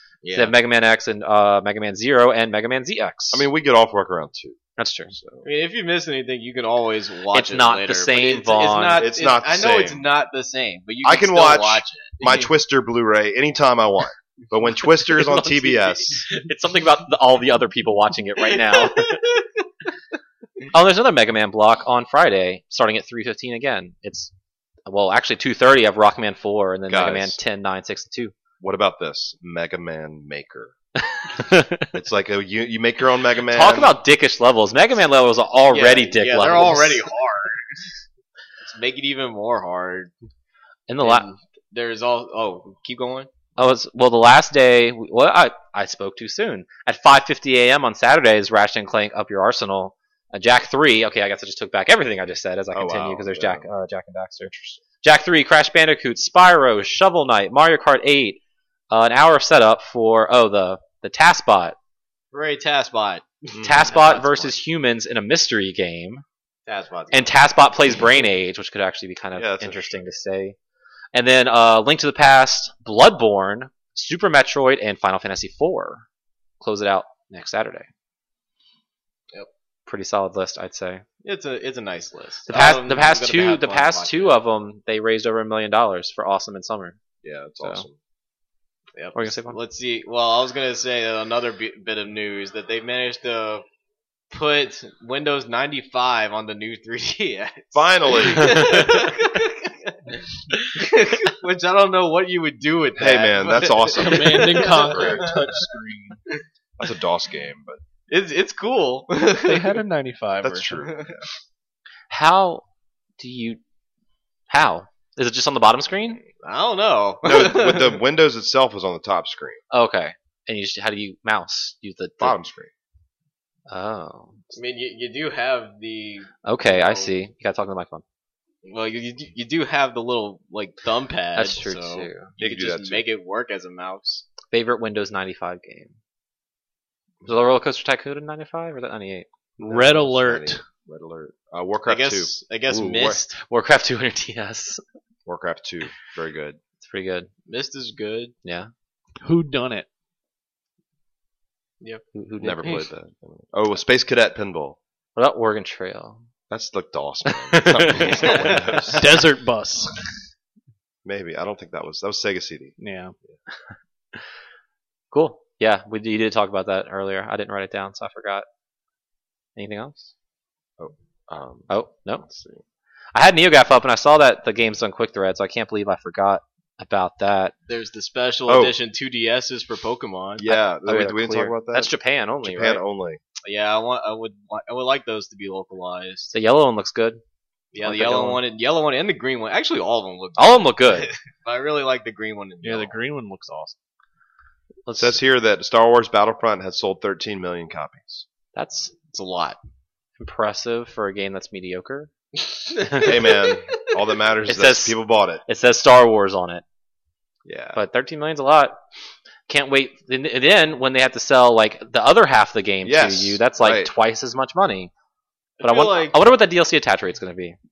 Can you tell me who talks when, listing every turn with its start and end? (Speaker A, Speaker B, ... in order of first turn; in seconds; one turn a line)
Speaker A: 0.2-0.5
Speaker B: 0.3-3.4
Speaker C: 3.3-4.6
Speaker B: 4.8-5.1
Speaker C: 5.1-5.4
Speaker A: 5.4-12.5
Speaker B: 7.3-9.1
Speaker C: 9.0-10.0
Speaker C: 11.0-16.2
Speaker B: 15.0-19.3
Speaker A: 18.6-19.5
Speaker B: 20.7-24.3
Speaker B: 24.9-28.3
Speaker C: 26.9-27.4
Speaker C: 28.6-30.7
Speaker B: 31.1-31.9
Speaker C: 31.9-34.0
Speaker B: 33.5-37.0
Speaker A: 35.7-37.9
Speaker A: 38.6-40.1
Speaker B: 40.9-41.3
Speaker A: 41.0-43.3
Speaker B: 43.6-61.8
Speaker C: 52.7-53.7
Speaker A: 62.3-64.5
Speaker C: 63.5-63.9
Speaker B: 63.6-66.2
Speaker A: 66.7-67.5
Speaker B: 67.1-70.5
Speaker C: 69.3-70.1
Speaker B: 71.1-76.0
Speaker B: 76.6-77.9
Speaker B: 79.9-81.0
Speaker A: 81.2-84.4
Speaker B: 82.5-87.0
Speaker C: 87.2-88.0
Speaker A: 88.9-93.6
Speaker B: 89.1-89.6
Speaker A: 94.3-105.5
Speaker C: 97.7-98.9
Speaker C: 103.0-105.4
Speaker D: 103.9-106.2
Speaker C: 106.8-107.8
Speaker A: 108.1-109.8
Speaker D: 109.4-110.8
Speaker C: 110.4-111.3
Speaker A: 110.8-111.1
Speaker B: 112.1-112.6
Speaker B: 113.2-113.6
Speaker B: 114.5-116.2
Speaker A: 116.4-118.0
Speaker C: 117.2-119.6
Speaker B: 119.7-122.4
Speaker C: 122.2-122.7
Speaker B: 123.7-124.5
Speaker A: 124.5-127.1
Speaker B: 126.4-128.0
Speaker A: 128.6-134.2
Speaker B: 131.3-132.3
Speaker C: 132.4-133.0
Speaker B: 134.5-135.9
Speaker B: 137.2-139.3
Speaker D: 139.6-140.6
Speaker C: 139.6-143.2
Speaker A: 141.9-143.4
Speaker B: 143.0-144.8
Speaker C: 145.2-146.6
Speaker B: 146.8-147.3
Speaker A: 147.5-148.3
Speaker B: 148.4-148.7
Speaker D: 149.2-149.9
Speaker A: 151.8-152.1
Speaker B: 152.1-152.8
Speaker C: 152.4-154.8
Speaker B: 155.2-156.2
Speaker C: 156.5-159.2
Speaker B: 157.3-158.5
Speaker A: 158.1-158.9
Speaker D: 158.9-160.0
Speaker C: 161.0-162.7
Speaker D: 162.8-163.1
Speaker B: 165.1-168.4
Speaker B: 169.6-170.1
Speaker C: 170.8-171.7
Speaker B: 171.7-172.2
Speaker C: 172.2-172.6
Speaker B: 173.1-177.5
Speaker A: 177.7-180.5
Speaker C: 178.5-178.7
Speaker C: 180.4-183.2
Speaker B: 180.5-182.8
Speaker A: 183.4-186.3
Speaker B: 186.3-187.2
Speaker A: 187.7-193.0
Speaker B: 187.8-188.4
Speaker B: 190.4-191.1
Speaker D: 192.6-193.8
Speaker B: 194.8-195.2
Speaker C: 194.9-198.2
Speaker B: 198.5-198.9
Speaker A: 199.1-199.6
Speaker B: 200.2-202.1
Speaker A: 202.9-203.5
Speaker C: 203.0-205.4
Speaker B: 204.5-206.6
Speaker C: 207.4-207.8
Speaker B: 207.7-208.8
Speaker B: 209.5-214.9
Speaker C: 212.8-213.9
Speaker A: 215.6-216.2
Speaker B: 215.6-217.6